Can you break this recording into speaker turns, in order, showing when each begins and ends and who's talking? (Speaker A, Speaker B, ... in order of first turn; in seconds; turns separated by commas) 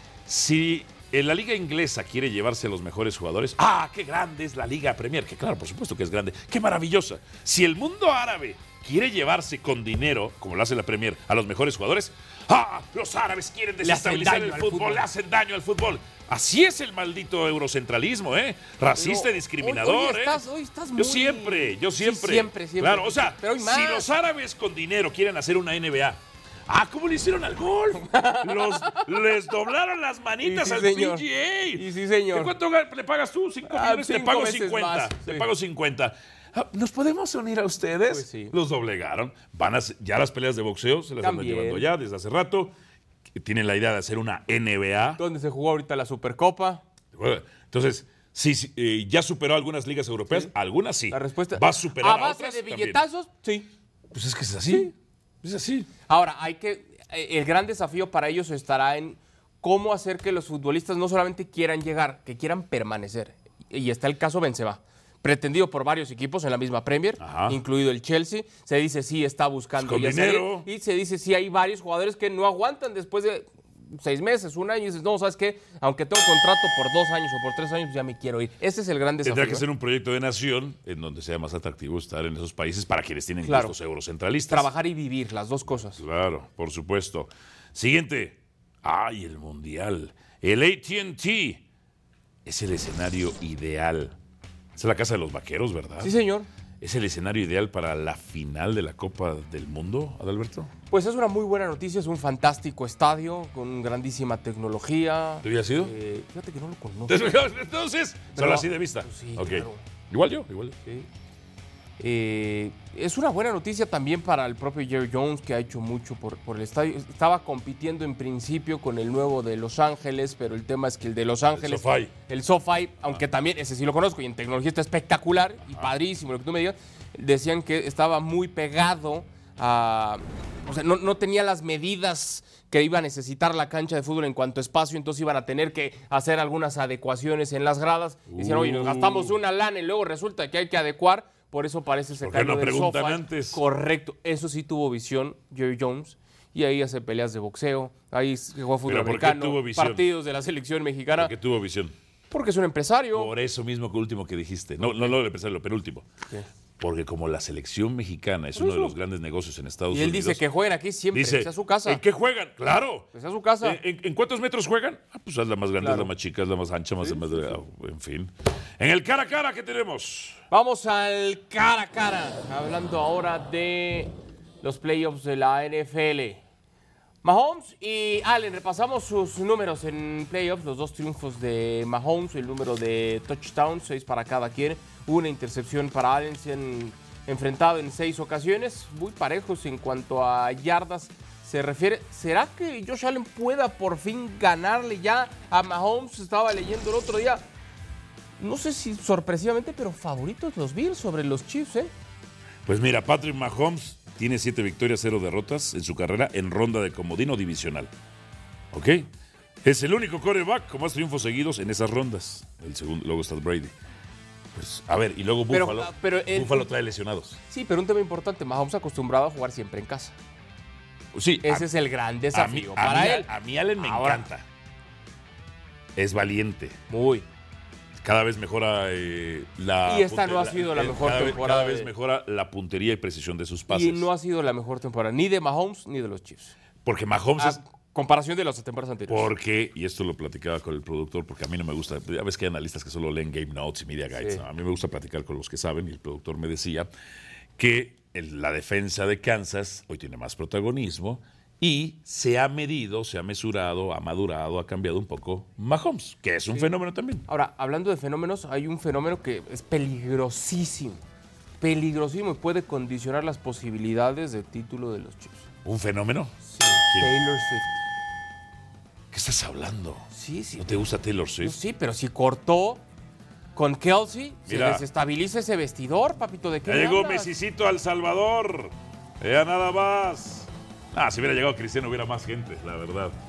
Speaker A: 0.2-20.4, Speaker B: 13.8-15.1, Speaker B: 18.9-24.1, Speaker A: 20.9-42.7, Speaker B: 27.9-29.0, Speaker B: 30.4-32.5, Speaker B: 33.6-35.5, Speaker B: 38.1-38.5, Speaker B: 41.2-41.9, Speaker A: 43.3-45.2, Speaker B: 45.2-46.8, Speaker A: 47.1-53.0, Speaker B: 51.1-53.7, Speaker A: 54.1-55.9, Speaker B: 56.1-79.6, Speaker A: 67.2-67.6, Speaker A: 69.8-70.7, Speaker A: 79.2-84.7, Speaker B: 83.4-83.7, Speaker B: 84.5-86.0, Speaker A: 86.0-91.6, Speaker A: 92.4-94.2, Speaker A: 94.8-96.1, Speaker B: 96.0-96.5, Speaker A: 96.8-100.7, Speaker B: 100.9-107.3, Speaker A: 105.4-105.9, Speaker A: 107.1-110.8, Speaker B: 108.3-109.8, Speaker B: 112.0-151.3, Speaker A: 121.5-122.1, Speaker A: 138.3-139.3, Speaker A: 142.2-143.6, Speaker A: 148.8-150.1, Speaker A: 151.2-151.9, Speaker B: 152.3-153.3, Speaker A: 153.1-156.1, Speaker A: 156.8-160.4, Speaker B: 158.5-158.9, Speaker B: 159.9-162.0, Speaker A: 161.1-163.1, Speaker B: 163.1-163.8, Speaker A: 163.6-170.4, Speaker B: 165.8-166.1, Speaker B: 167.0-167.5, Speaker B: 170.5-176.4, Speaker B: 177.2-197.4, Speaker B: 198.4-201.9, Speaker A: 202.7-207.9, Speaker A: 208.7-209.1, Speaker A: 209.6-213.7, Speaker A: 214.5-217.4, Speaker B: 215.5-216.7, Speaker B: 217.5-220.1, Speaker A: 221.1-221.7, Speaker B: 221.4-224.3, Speaker A: 222.3-224.4, Speaker A: 225.9-226.8, Speaker B: 226.9-227.2, Speaker A: 228.0-234.1, Speaker B: 229.8-231.9, Speaker B: 233.7-236.5, Speaker A: 236.8-237.6, Speaker B: 237.4-239.3, Speaker A: 239.1-246.9, Speaker B: 244.1-244.4, Speaker A: 247.6-257.2, Speaker B: 257.3-261.0, Speaker B: 261.6-265.4, Speaker A: 265.6-266.3, Speaker B: 266.4-267.7, Speaker A: 269.1-270.1, Speaker B: 270.1-270.8, Speaker A: 270.6-271.5, Speaker B: 271.4-272.8, Speaker B: 273.5-277.3, Speaker A: 274.5-274.8, Speaker A: 276.6-283.1